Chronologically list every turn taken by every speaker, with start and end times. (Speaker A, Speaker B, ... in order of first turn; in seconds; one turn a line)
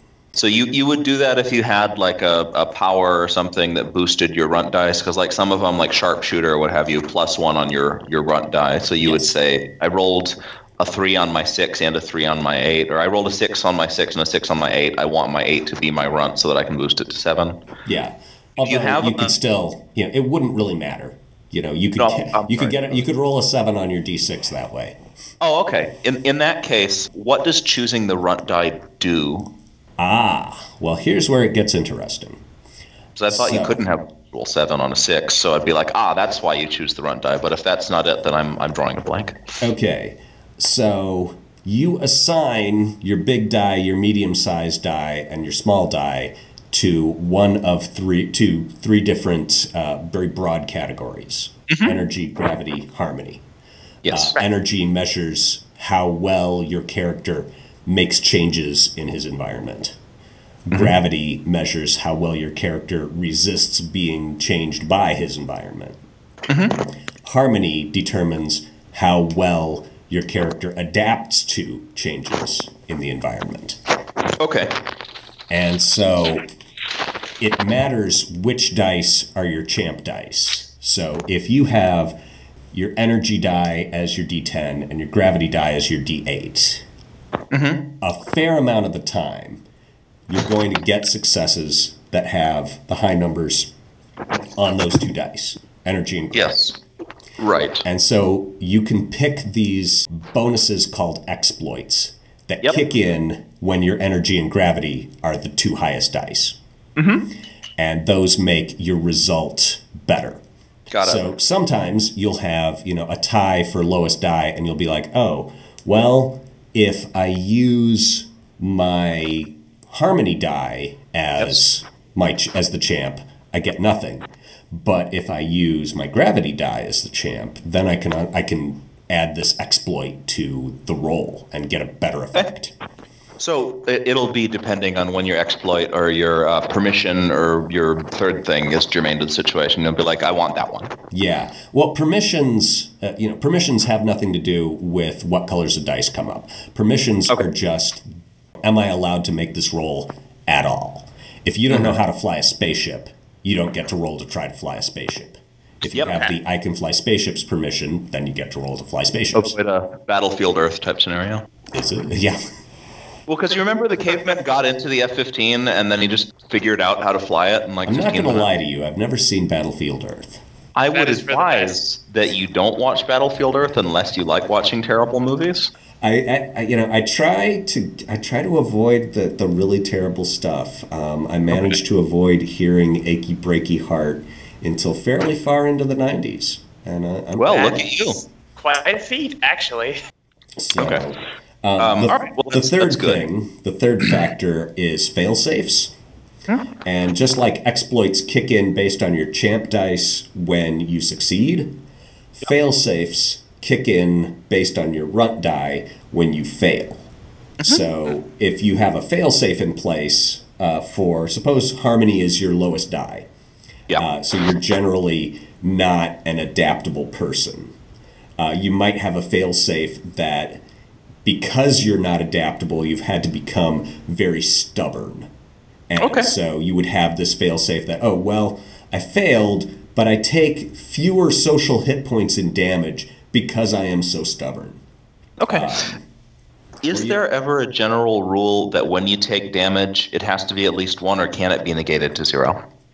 Speaker A: 0.3-17.6
Speaker B: 17.8-25.0
Speaker A: 18.6-19.3
Speaker A: 22.0-22.9
Speaker A: 25.4-29.5
Speaker B: 30.0-32.4
Speaker A: 33.1-39.4
Speaker B: 33.3-33.8
Speaker B: 39.6-53.4
Speaker A: 51.7-52.0
Speaker A: 54.0-54.3
Speaker B: 54.1-60.0
Speaker B: 60.6-66.0
Speaker A: 66.5-66.8
Speaker B: 67.2-73.8
Speaker A: 74.4-74.7
Speaker B: 75.5-76.5
Speaker B: 77.4-82.2
Speaker B: 82.7-86.8
Speaker A: 87.5-87.8
Speaker B: 88.0-89.6
Speaker B: 90.3-93.7
Speaker B: 94.5-96.6
Speaker A: 96.3-96.8
Speaker A: 97.4-97.8
Speaker B: 97.8-106.6
Speaker A: 107.0-107.2
Speaker B: 107.8-110.4
Speaker A: 110.9-111.2
Speaker B: 111.0-132.7
Speaker A: 133.4-140.9
Speaker B: 141.1-148.1
Speaker B: 148.6-159.5
Speaker A: 155.9-156.3
Speaker A: 159.3-161.4
Speaker B: 161.7-162.4
Speaker A: 163.3-168.5
Speaker B: 167.8-170.4
Speaker A: 170.7-175.7
Speaker C: 170.9-171.8
Speaker B: 176.0-187.8
Speaker A: 187.4-188.2
Speaker C: 187.5-190.0
Speaker B: 190.6-195.9
Speaker A: 190.8-191.0
Speaker A: 191.8-193.2
Speaker B: 196.8-201.8
Speaker B: 202.4-207.1
Speaker B: 207.6-213.3
Speaker B: 214.0-217.7
Speaker B: 218.4-220.6
Speaker B: 221.2-225.3
Speaker B: 225.9-234.8
Speaker A: 226.0-226.3
Speaker A: 235.4-235.9
Speaker B: 235.5-236.0
Speaker A: 236.8-242.6
Speaker B: 236.9-237.2